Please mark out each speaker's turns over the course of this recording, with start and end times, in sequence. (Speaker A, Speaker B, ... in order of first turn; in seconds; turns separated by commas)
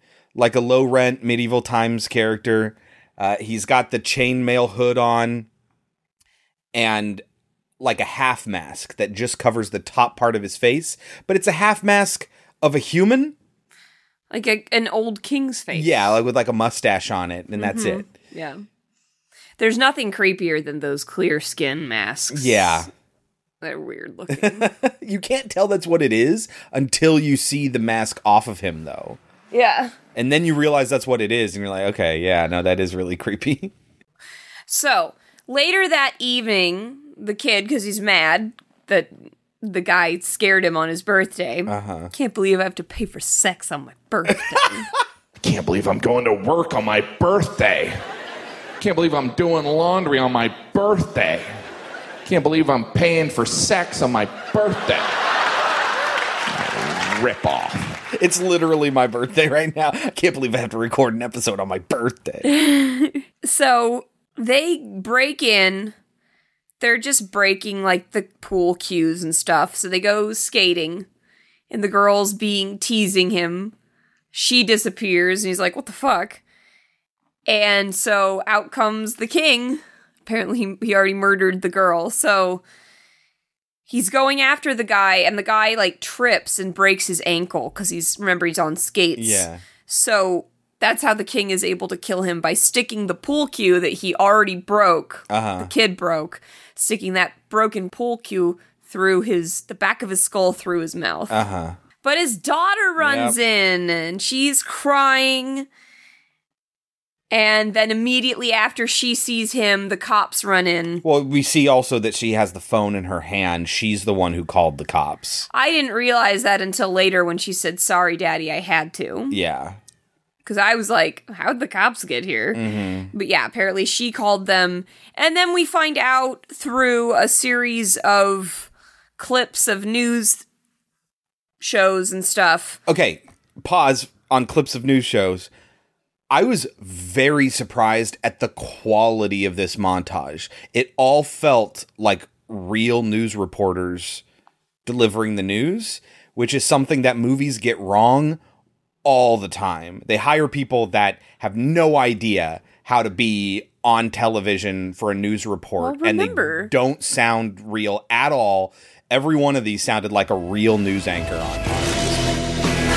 Speaker A: 0.3-5.5, Speaker A: 6.7-7.2, Speaker A: 7.8-13.3, Speaker B: 14.3-16.1, Speaker A: 15.7-18.1, Speaker B: 17.6-18.6, Speaker B: 19.6-22.9, Speaker A: 22.3-22.9, Speaker B: 23.6-24.7, Speaker A: 24.3-29.2, Speaker B: 29.5-29.9, Speaker A: 30.1-33.7, Speaker B: 34.7-44.9, Speaker A: 41.6-42.1, Speaker C: 45.4-48.0, Speaker C: 48.8-51.6, Speaker C: 52.2-55.1, Speaker C: 56.5-58.0, Speaker A: 58.1-62.5, Speaker B: 62.5-65.9, Speaker B: 66.8-71.1, Speaker B: 71.7-73.7, Speaker B: 74.3-76.4, Speaker B: 77.5-82.6, Speaker B: 83.9-101.3, Speaker A: 89.2-89.6, Speaker A: 95.3-95.7, Speaker A: 101.3-101.8, Speaker B: 102.0-105.7, Speaker A: 103.0-103.3, Speaker B: 107.3-111.0, Speaker A: 111.0-115.5, Speaker B: 115.5-119.4, Speaker A: 119.3-119.8, Speaker B: 120.4-122.6, Speaker A: 122.5-123.1, Speaker B: 123.1-130.4, Speaker B: 131.6-132.8, Speaker A: 132.9-135.5, Speaker A: 136.3-144.2, Speaker A: 144.8-148.4, Speaker A: 149.0-162.2, Speaker B: 155.8-156.7